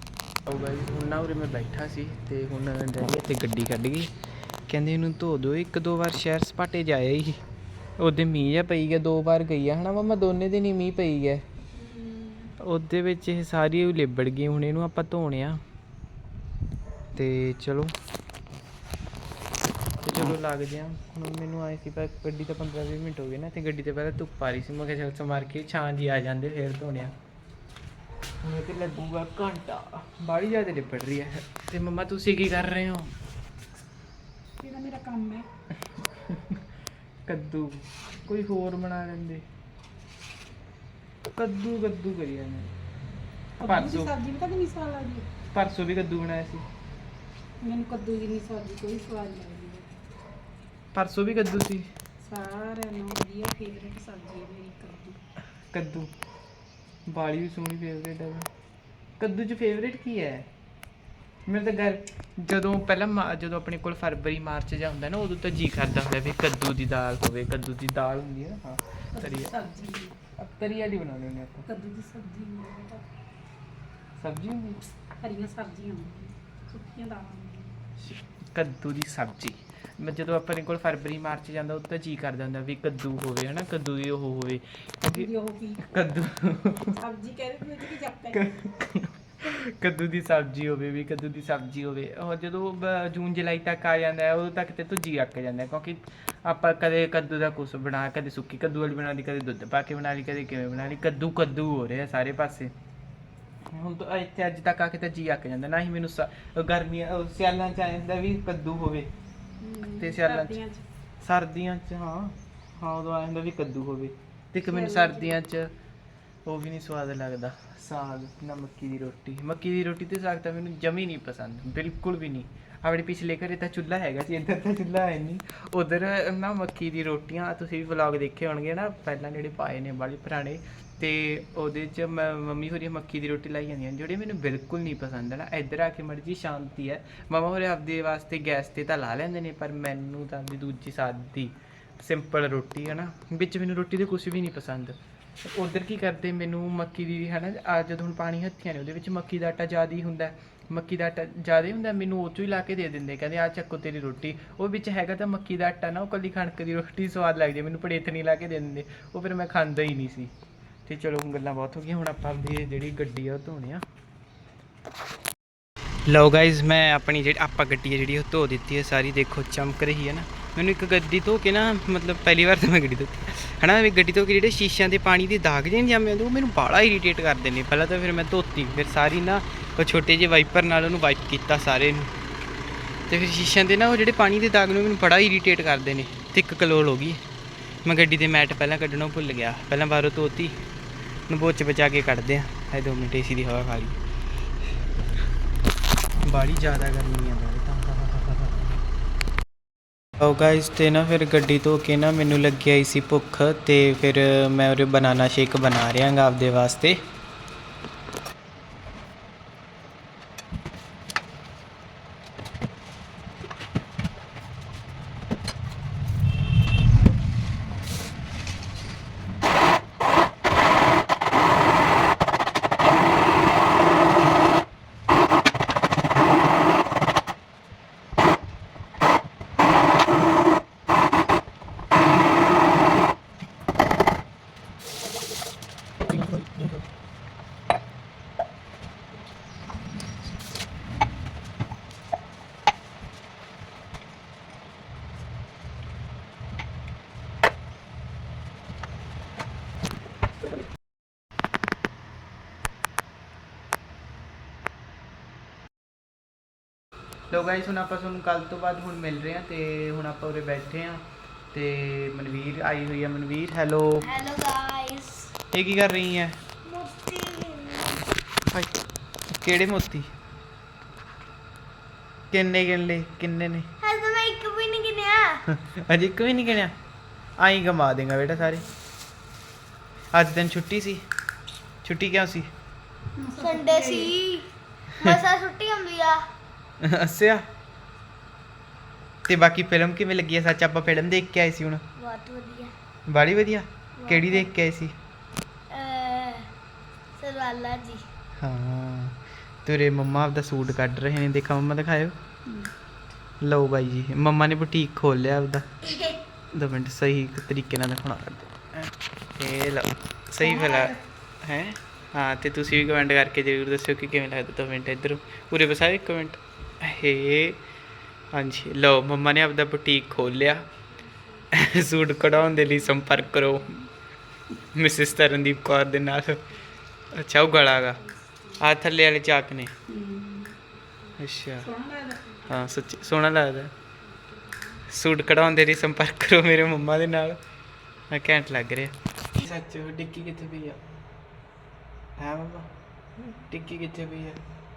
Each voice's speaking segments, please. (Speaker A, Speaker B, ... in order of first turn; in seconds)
Speaker A: 0.5-4.1, 4.7-7.4, 8.0-11.4, 12.6-15.6, 17.1-17.9, 20.0-27.1, 28.4-33.1, 35.9-36.6, 37.3-39.5, 41.3-42.7, 43.6-44.1, 45.5-46.6, 50.9-51.9, 55.7-56.1, 57.1-58.5, 59.2-60.5, 61.5-69.6, 70.4-71.7, 74.2-74.8, 78.0-87.0, 88.3-102.7, 103.7-109.1, 109.9-110.6, 111.2-115.7, 116.5-160.3, 160.9-163.8, 166.1-182.1, 183.1-187.2, 187.8-190.6, 191.3-194.0, 196.2-198.7, 200.2-207.0, 257.3-264.1, 265.5-266.4, 268.5-270.1, 272.3-273.8, 275.5-276.7, 277.4-278.7, 280.1-281.1, 281.8-282.5, 286.8-287.5, 289.3-291.9, 293.1-295.0, 298.4-302.1, 303.4-305.9, 306.5-317.6, 318.3-320.7, 321.5-323.9, 324.6-326.4, 327.1-329.7, 331.2-331.7, 332.4-333.7, 334.9-337.4, 338.1-340.8, 342.2-344.4
Speaker B: 11.8-12.5, 34.6-35.5, 43.6-45.3, 47.6-49.9, 52.2-55.2, 69.2-70.1, 71.7-73.0, 75.2-77.7, 85.1-85.8, 87.0-88.4, 109.6-110.8, 114.7-115.4, 283.2-284.2, 310.6-310.9, 329.9-330.6, 331.6-332.4
Speaker C: 264.0-265.3, 266.6-268.0, 273.8-275.4, 283.4-286.2, 291.9-292.7, 294.0-294.4, 295.7-296.5, 297.2-298.0, 305.9-306.2